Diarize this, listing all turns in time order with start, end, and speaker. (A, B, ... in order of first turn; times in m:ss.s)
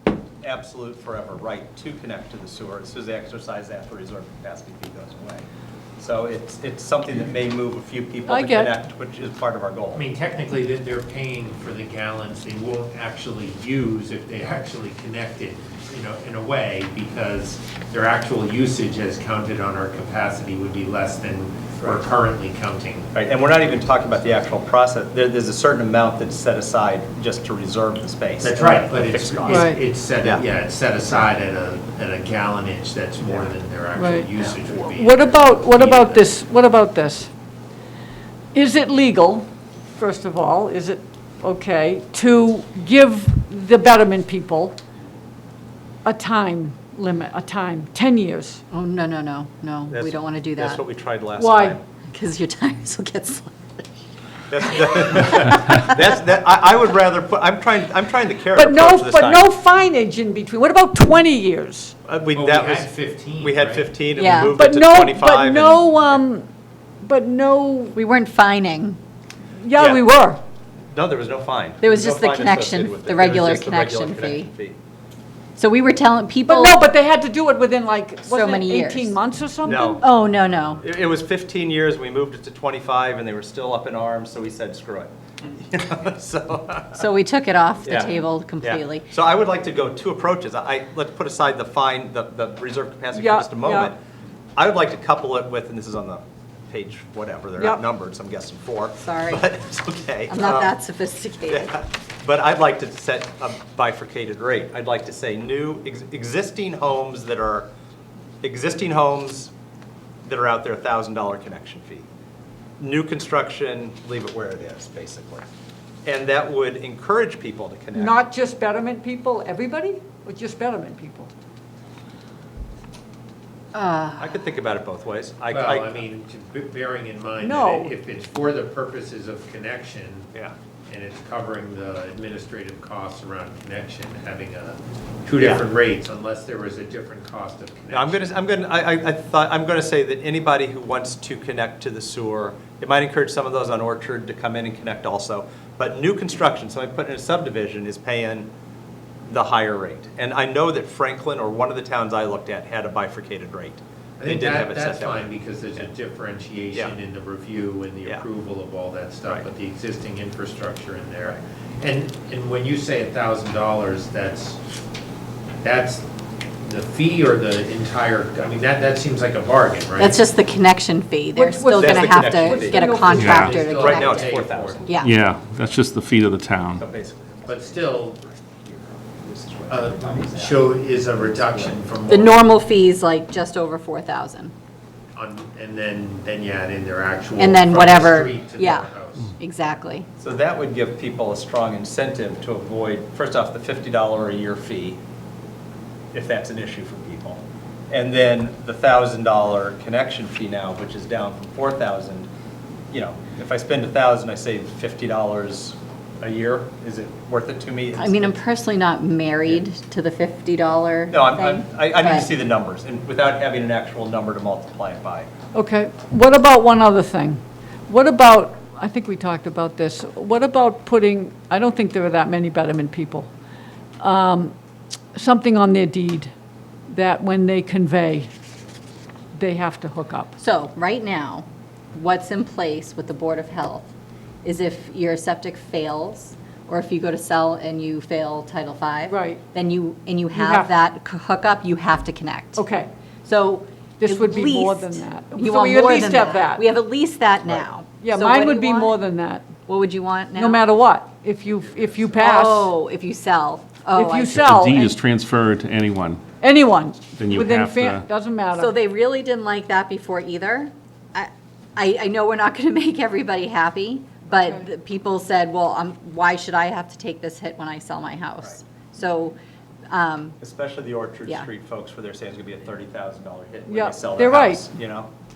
0:00.4-0:05.4 A
0:06.0-0:10.0 A
0:08.3-0:08.7 B
0:09.9-0:23.1 C
0:23.1-0:30.4 A
0:28.4-0:36.3 C
0:29.5-0:29.8 B
0:34.0-0:37.3 B
0:38.5-0:44.8 B
0:46.0-0:48.6 B
0:48.7-0:50.8 D
0:49.9-0:51.8 A
0:51.4-0:51.8 B
0:52.1-0:53.6 D
0:54.5-0:59.5 A
0:54.7-0:56.0 D
0:58.5-1:02.0 B
1:02.0-1:06.2 A
1:02.3-1:03.9 C
1:04.2-1:04.6 D
1:04.5-1:06.5 B
1:07.0-1:08.0 B
1:08.0-1:09.0 D
1:09.6-1:10.4 B
1:09.7-1:10.0 A
1:10.9-1:14.8 A
1:11.8-1:14.5 D
1:15.6-1:16.8 D
1:16.5-1:20.0 B
1:18.2-1:19.1 D
1:19.7-1:20.0 A
1:20.0-1:20.8 D
1:20.8-1:27.0 A
1:27.0-1:29.1 D
1:27.9-1:34.0 A
1:33.1-1:33.9 B
1:34.6-1:40.8 A
1:39.0-1:39.4 D
1:40.3-1:41.7 D
1:41.5-1:47.7 A
1:48.4-1:49.5 A
1:50.2-1:52.1 A
1:52.8-1:55.4 A
1:56.0-1:58.2 A
1:58.0-2:01.3 B
2:03.7-2:04.3 D
2:04.2-2:06.0 A
2:05.5-2:10.3 C
2:07.4-2:07.9 B
2:10.9-2:18.3 C
2:15.4-2:15.7 A
2:17.9-2:28.5 A
2:29.3-2:35.9 A
2:34.2-2:44.6 C
2:45.6-2:46.0 C
2:46.6-2:50.2 C
2:50.0-2:55.1 D
2:51.4-2:53.9 B
2:51.8-2:54.8 A
2:53.2-2:53.5 E
2:53.4-2:54.9 C
2:55.0-2:56.8 E
2:56.8-3:01.8 A
2:57.5-2:58.2 C
2:59.7-3:02.4 C
3:02.1-3:04.5 D
3:05.2-3:09.3 C
3:07.4-3:10.1 D
3:10.2-3:15.0 A
3:16.1-3:22.3 A
3:22.9-3:28.4 A
3:28.0-3:32.3 D
3:31.1-3:35.3 A
3:35.5-3:43.3 B
3:44.0-3:44.6 B
3:45.1-3:46.3 B
3:46.9-3:48.3 B
3:49.3-3:50.3 B
3:50.4-3:53.9 D
3:54.4-4:02.6 D
3:59.1-3:59.4 B
4:00.3-4:00.8 B
4:02.6-4:02.9 B
4:03.2-4:09.0 D
4:04.0-4:06.7 B
4:08.0-4:09.6 B
4:09.7-4:10.6 D
4:10.4-4:12.7 B
4:11.7-4:12.1 A
4:12.2-4:14.9 D
4:14.0-4:14.9 B
4:14.2-4:16.2 E
4:16.4-4:18.8 B
4:17.2-4:18.0 E
4:18.6-4:29.4 D
4:24.3-4:24.6 B
4:29.9-4:30.4 D
4:30.4-4:35.1 A
4:33.7-4:34.7 B